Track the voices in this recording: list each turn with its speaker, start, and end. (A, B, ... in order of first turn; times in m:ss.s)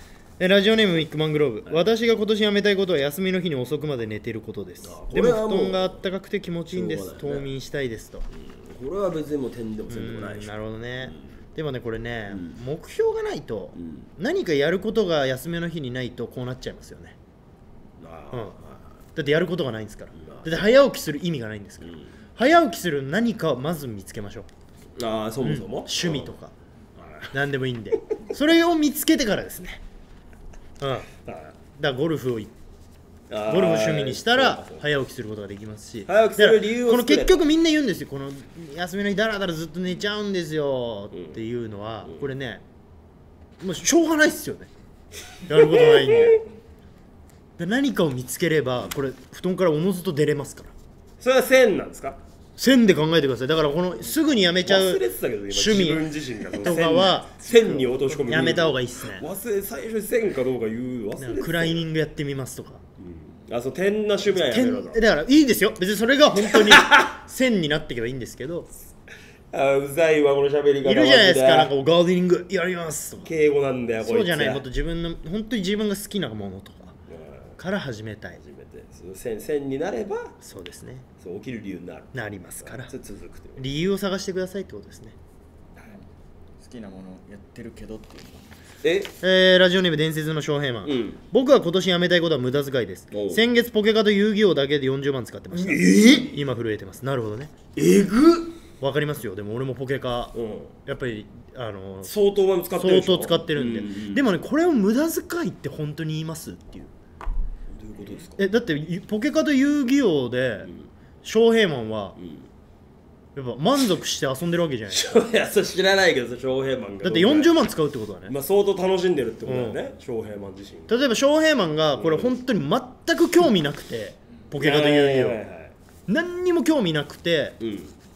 0:00.4-0:08.2 A
0:04.8-0:06.0 B
0:06.7-0:07.5 B
0:08.3-0:10.5 B
0:09.9-0:17.1 A
0:11.0-0:11.3 B
0:12.3-0:12.5 B
0:13.8-0:14.1 B
0:18.0-0:18.8 B
0:19.1-0:24.5 A
0:20.1-0:20.6 B
0:21.8-0:22.1 B
0:25.0-0:26.3 B
0:25.4-0:26.5 A
0:27.0-0:27.3 B
0:27.3-0:29.8 A
0:30.8-0:31.1 A
0:31.2-0:31.5 B
0:31.8-0:32.5 A
0:33.3-0:34.8 B
0:33.5-0:42.6 A
0:36.0-0:37.4 B
0:41.1-0:41.4 B
0:43.6-0:44.7 A
0:45.5-0:46.4 A
0:45.5-0:46.4 B
0:47.6-0:50.7 A
0:51.2-0:52.2 B
0:52.6-0:59.2 A
0:54.6-1:01.8 B
1:01.2-1:02.8 A
1:03.0-1:05.0 B
1:04.3-1:08.7 A
1:06.4-1:07.1 B
1:09.5-1:11.7 B
1:10.8-1:13.3 A
1:13.2-1:14.6 B
1:14.0-1:17.0 A
1:17.1-1:17.6 B
1:17.6-1:18.4 A
1:18.4-1:20.3 B
1:20.4-1:21.0 A
1:21.2-1:23.6 B
1:22.1-1:22.9 A
1:23.6-1:25.1 A
1:26.6-1:28.5 C
1:28.8-1:29.1 B
1:29.2-1:37.5 A
1:30.8-1:31.2 B
1:33.1-1:33.4 B
1:35.5-1:36.3 B
1:37.8-1:38.6 B
1:38.8-1:40.3 A
1:40.3-1:40.7 B
1:40.8-1:42.1 A
1:42.0-1:44.2 B
1:42.7-1:46.9 A
1:47.7-1:48.4 B
1:48.4-1:50.7 A
1:51.2-1:52.2 A
1:52.2-1:52.5 B
1:53.3-1:55.1 A
1:54.9-1:57.5 B
1:57.0-1:58.3 A
1:58.3-2:00.9 B
1:59.4-1:59.8 A
2:00.9-2:05.4 A
2:02.0-2:02.3 B
2:04.6-2:05.7 B
2:06.1-2:07.6 A
2:07.6-2:07.9 B